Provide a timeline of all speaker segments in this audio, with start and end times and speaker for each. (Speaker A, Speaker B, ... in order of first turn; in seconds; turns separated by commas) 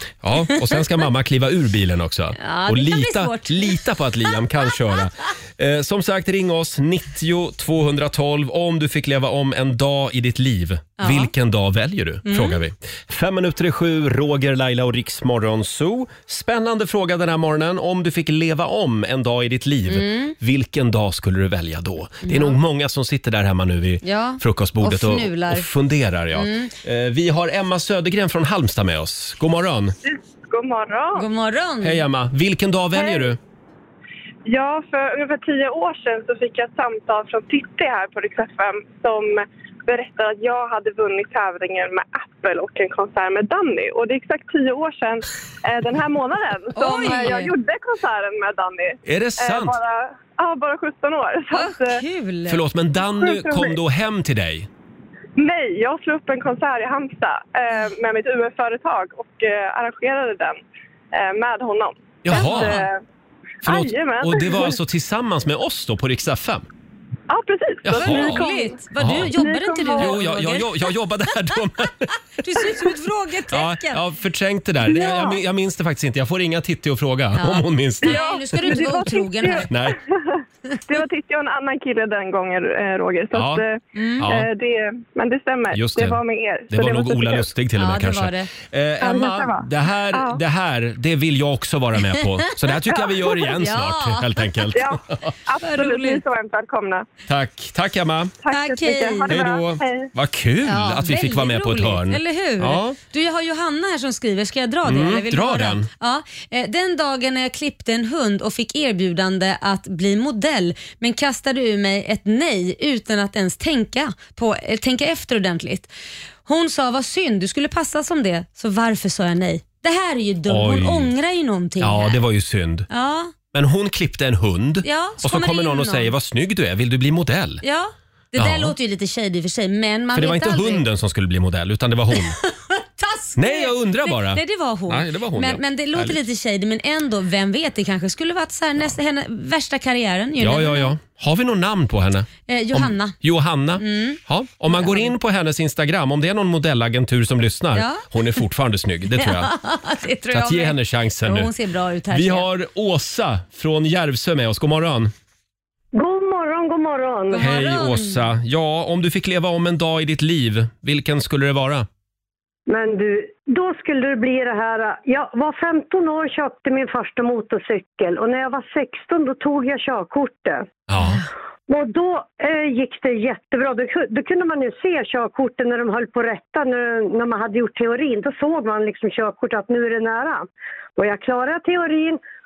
Speaker A: 0.2-29.9, Speaker B: 0.5-0.8, Speaker B: 2.4-4.3, Speaker B: 11.0-11.3, Speaker B: 12.3-12.6, Speaker B: 19.9-20.4, Speaker B: 22.2-22.6, Speaker B: 24.0-25.7, Speaker B: 26.3-26.7, Speaker C: 30.0-31.3, Speaker B: 31.1-32.0, Speaker A: 31.8-33.4, Speaker C: 33.0-33.3, Speaker C: 34.5-52.0, Speaker B: 46.8-47.5, Speaker A: 49.0-49.8, Speaker B: 51.5-52.6, Speaker A: 52.5-54.7, Speaker C: 53.0-53.8, Speaker C: 55.4-60.6, Speaker C: 61.1-63.0, Speaker A: 62.2-62.8, Speaker B: 62.3-62.8, Speaker C: 63.6-64.8, Speaker A: 63.6-66.7, Speaker C: 67.3-68.8, Speaker A: 67.8-68.5, Speaker B: 68.0-70.9, Speaker A: 69.0-69.3, Speaker C: 69.3-70.2, Speaker A: 70.0-72.1, Speaker B: 72.4-74.0, Speaker A: 73.5-78.2, Speaker C: 75.0-75.4, Speaker B: 77.4-79.7, Speaker C: 78.0-87.5, Speaker A: 79.7-80.0, Speaker A: 83.3-83.6, Speaker B: 84.0-84.3, Speaker A: 84.2-84.5, Speaker A: 85.7-95.3, Speaker B: 87.8-88.5, Speaker C: 89.0-90.4, Speaker B: 93.3-94.5, Speaker C: 94.7-97.1, Speaker B: 95.6-96.2, Speaker A: 97.3-98.3, Speaker C: 98.4-100.1, Speaker B: 98.5-99.4, Speaker A: 99.3-103.0, Speaker B: 100.7-115.9, Speaker A: 104.9-105.9, Speaker B: 116.5-122.2, Speaker A: 120.5-121.1, Speaker A: 121.8-122.9, Speaker B: 122.9-123.3, Speaker A: 123.5-127.6, Speaker B: 124.8-126.1, Speaker B: 127.6-130.8, Speaker A: 128.4-128.8, Speaker A: 130.2-132.4, Speaker B: 132.3-140.9, Speaker A: 133.4-136.2, Speaker A: 140.4-149.5, Speaker B: 142.5-143.2, Speaker B: 143.8-145.2, Speaker B: 147.7-148.4, Speaker B: 149.1-152.5, Speaker A: 150.3-151.5, Speaker A: 152.1-155.1, Speaker D: 155.9-157.4, Speaker B: 157.3-158.3, Speaker A: 157.4-161.9, Speaker D: 162.7-170.6, Speaker A: 170.9-171.2, Speaker D: 171.7-182.2